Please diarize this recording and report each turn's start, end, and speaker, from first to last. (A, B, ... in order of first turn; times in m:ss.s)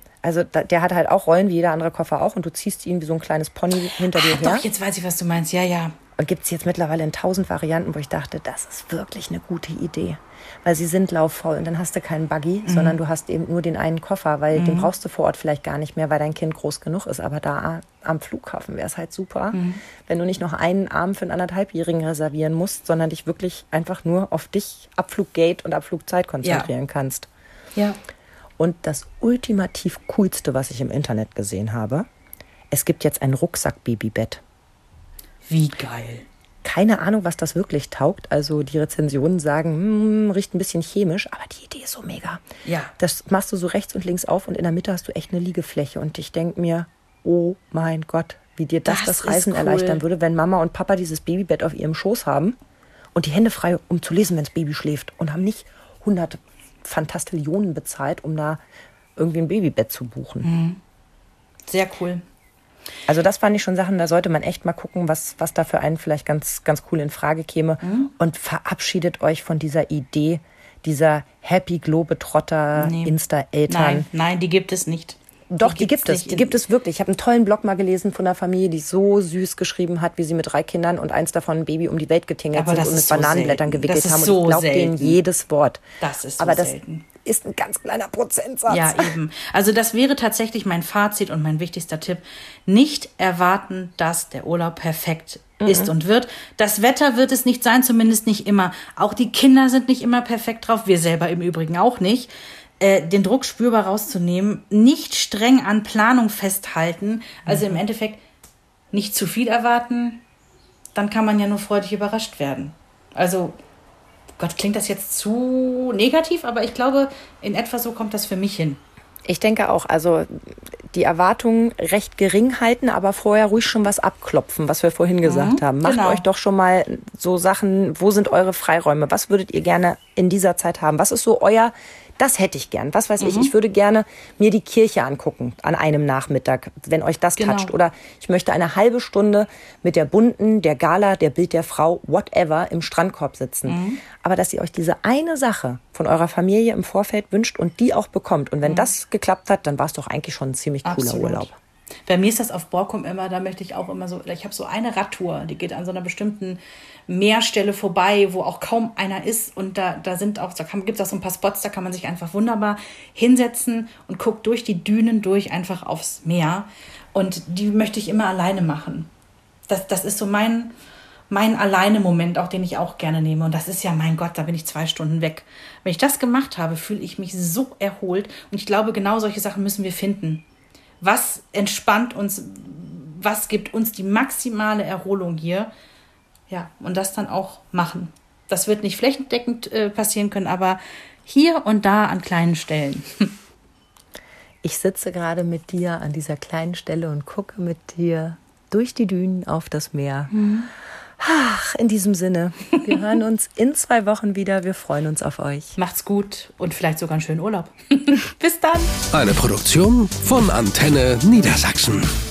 0:00.2-0:04.7 A
0:04.0-0:06.0 B
0:06.2-0:27.3 A
0:12.6-0:13.0 B
0:14.5-0:14.9 B
0:19.5-0:19.8 B
0:26.4-0:26.7 B
0:28.6-0:32.1 A
0:32.7-0:34.4 A
0:35.5-0:36.3 B
0:36.6-0:42.4 A
0:42.6-0:42.9 B
0:43.0-0:52.6 A
0:48.9-0:50.0 B
0:53.2-0:58.6 A
0:59.2-1:00.5 A
1:00.4-1:00.8 B
1:01.7-1:02.2 B
1:03.1-1:14.1 A
1:07.8-1:08.1 B
1:12.8-1:13.1 B
1:13.7-1:16.6 B
1:15.5-1:25.8 A
1:22.5-1:25.2 B
1:26.0-1:27.1 B
1:26.4-1:29.1 A
1:28.7-1:48.2 B
1:35.6-1:35.9 A
1:48.9-1:50.2 B
1:51.0-1:53.6 B
1:54.4-1:58.8 B
1:59.3-2:31.5 A
2:05.2-2:06.2 B
2:13.2-2:13.5 B
2:17.4-2:17.7 B
2:23.7-2:24.0 B
2:30.8-2:31.5 B
2:32.1-2:49.1 B
2:49.7-2:50.7 B
2:51.3-3:00.4 B
3:01.0-3:05.7 B
3:06.5-3:13.4 B
3:14.6-3:20.3 A
3:20.3-3:20.7 B
3:21.2-3:25.8 A
3:25.8-3:29.0 B
3:29.1-3:32.1 C